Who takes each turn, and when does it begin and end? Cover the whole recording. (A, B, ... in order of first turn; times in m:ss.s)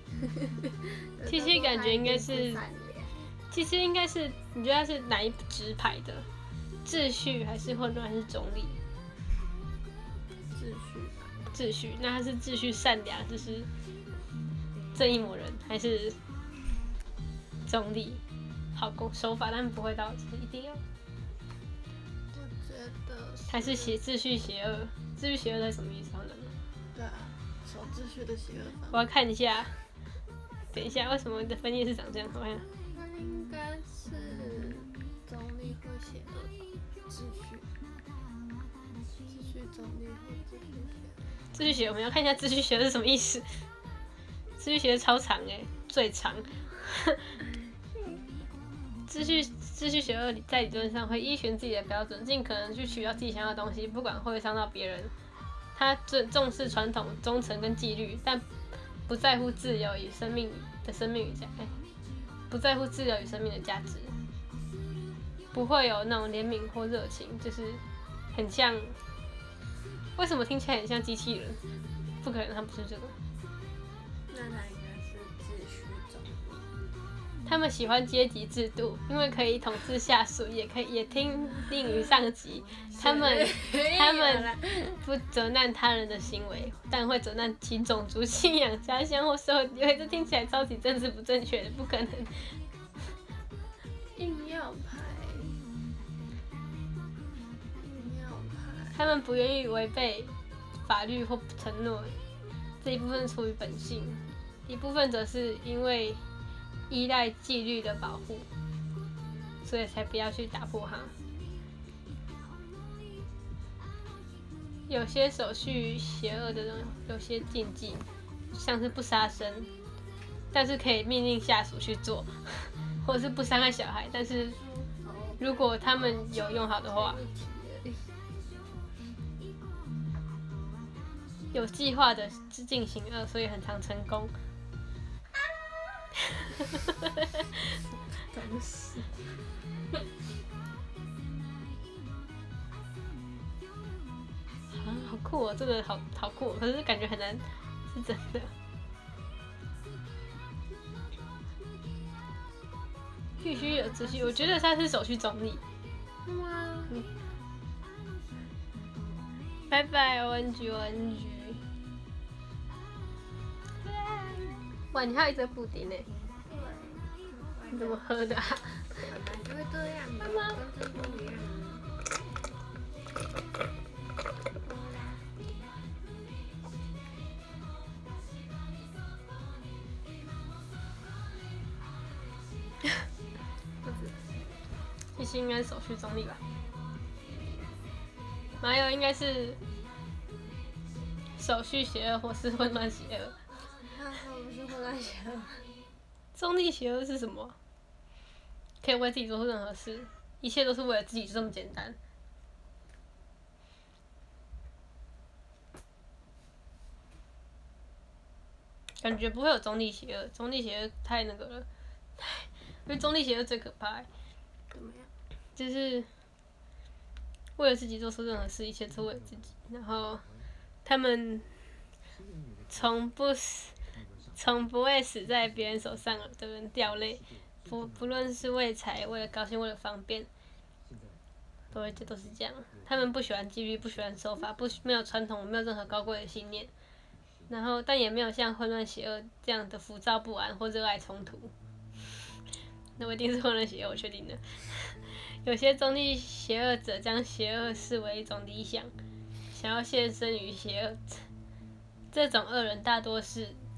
0:00.4-0:03.2 A
0:01.3-0:02.6 B
0:03.5-0:06.3 B
0:06.8-0:08.8 B
0:10.5-0:11.4 A
0:11.5-0:13.7 B
0:14.9-0:16.2 B
0:17.6-0:18.2 B
0:18.7-0:20.8 B
0:22.3-0:24.0 A
0:23.5-0:26.5 B
0:26.9-0:29.0 A
0:28.9-0:29.8 B
0:30.7-0:32.6 B
0:32.9-0:37.7 A
0:39.3-0:41.3 A
0:41.5-0:43.6 B
0:44.6-0:47.4 B
0:47.9-0:48.2 A
0:49.1-0:55.1 B
0:55.7-0:58.4 B
0:59.1-1:01.7 B
1:02.5-1:04.2 B
1:05.5-1:07.8 B
1:08.3-1:09.0 B
1:10.2-1:11.6 B
1:12.2-1:13.2 B
1:14.3-1:16.7 A
1:17.4-1:32.6 B
1:22.9-1:24.9 A
1:34.1-1:35.6 A
1:37.8-1:39.0 A
1:38.9-1:42.2 B
1:42.8-1:46.2 B
1:46.9-1:48.5 B
1:49.6-1:51.1 B
1:54.9-1:59.7 B
2:00.5-2:04.6 B
2:04.9-2:08.1 A
2:05.4-2:07.2 B
2:11.5-2:14.3 B
2:18.3-2:19.3 A
2:24.7-2:28.5 B
2:33.4-2:35.6 B
2:33.5-2:34.6 A
2:36.2-2:36.9 A
2:39.7-2:41.6 B
2:43.8-2:46.1 B
2:46.4-2:48.0 A
2:47.7-2:49.0 B
2:49.0-2:51.8 A
2:50.2-2:50.6 B
2:54.6-2:55.3 A
3:03.8-3:04.3 A
3:05.2-3:06.4 B
3:08.6-3:09.6 B
3:11.4-3:13.3 B
3:13.6-3:15.7 A
3:16.3-3:17.6 B
3:18.8-3:22.0 B
3:29.0-3:31.6 B
3:32.2-3:34.1 B
3:34.7-3:35.1 A
3:35.6-3:36.1 B
3:37.6-3:40.2 B
3:40.8-3:41.5 B
3:42.7-3:43.8 B
3:44.4-3:50.3 B
3:51.7-3:56.7 B
3:57.5-4:01.5 B
4:03.0-4:08.9 B
4:09.5-4:11.2 B
4:12.1-4:13.6 B